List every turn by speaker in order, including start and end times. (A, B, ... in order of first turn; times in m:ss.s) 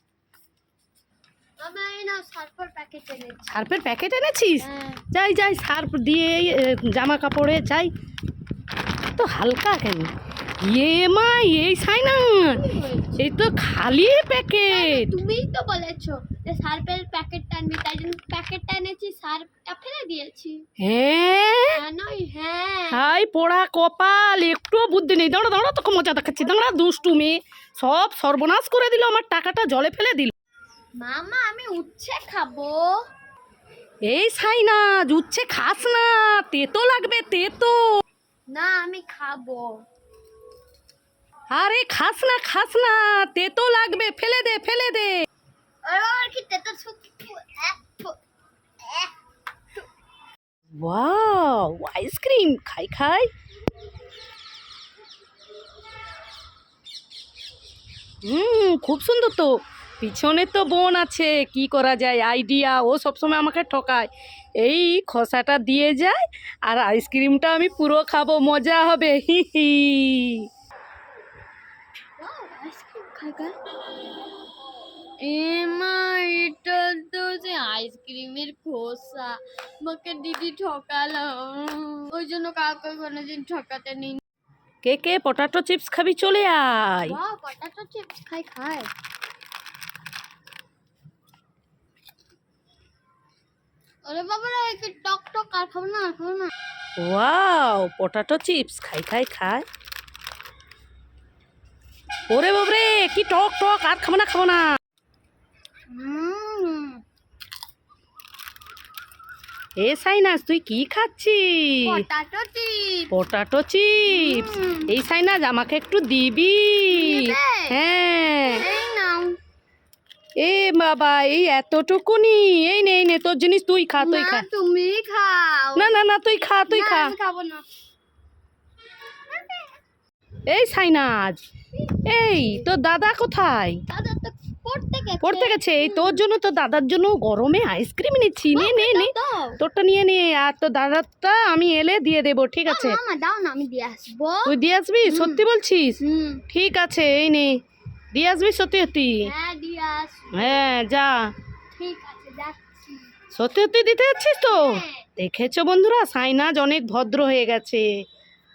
0:01.6-0:03.7 A
0:03.5-0:07.9 B
0:04.6-0:05.0 A
0:09.2-0:12.6 B
0:12.4-0:13.3 A
0:13.2-0:15.1 B
0:14.7-0:20.6 A
0:20.8-0:21.8 B
0:21.7-0:23.1 A
0:22.9-0:30.3 B
0:31.0-0:33.0 A
0:34.0-0:37.8 B
0:38.5-0:39.8 A
0:41.5-0:45.2 B
0:45.8-0:48.2 A
0:48.8-0:49.1 A
0:50.8-0:53.3 B
0:58.2-1:10.4 B
1:12.2-1:13.6 A
1:15.2-1:24.2 A
1:24.8-1:27.2 B
1:27.0-1:28.9 A
1:34.0-1:36.5 A
1:37.0-1:39.6 B
1:42.3-1:44.6 B
1:45.9-1:47.0 A
1:49.8-1:52.0 B
1:51.8-1:53.1 A
1:53.1-1:58.6 B
1:54.0-1:54.9 A
1:56.9-1:57.8 A
1:58.5-1:59.4 A
2:00.4-2:04.4 B
2:04.0-2:06.0 A
2:05.8-2:07.1 B
2:06.6-2:07.6 A
2:09.3-2:09.8 A
2:10.5-2:11.4 B
2:11.7-2:12.7 A
2:12.0-2:13.8 B
2:13.9-2:16.2 A
2:15.2-2:23.0 B
2:18.5-2:19.6 A
2:22.6-2:25.4 A
2:24.4-2:27.6 B
2:26.0-2:26.4 A
2:28.1-2:29.3 B
2:29.2-2:30.7 A
2:30.3-2:31.3 B
2:31.7-2:33.1 A
2:33.3-2:37.9 B
2:34.1-2:35.1 A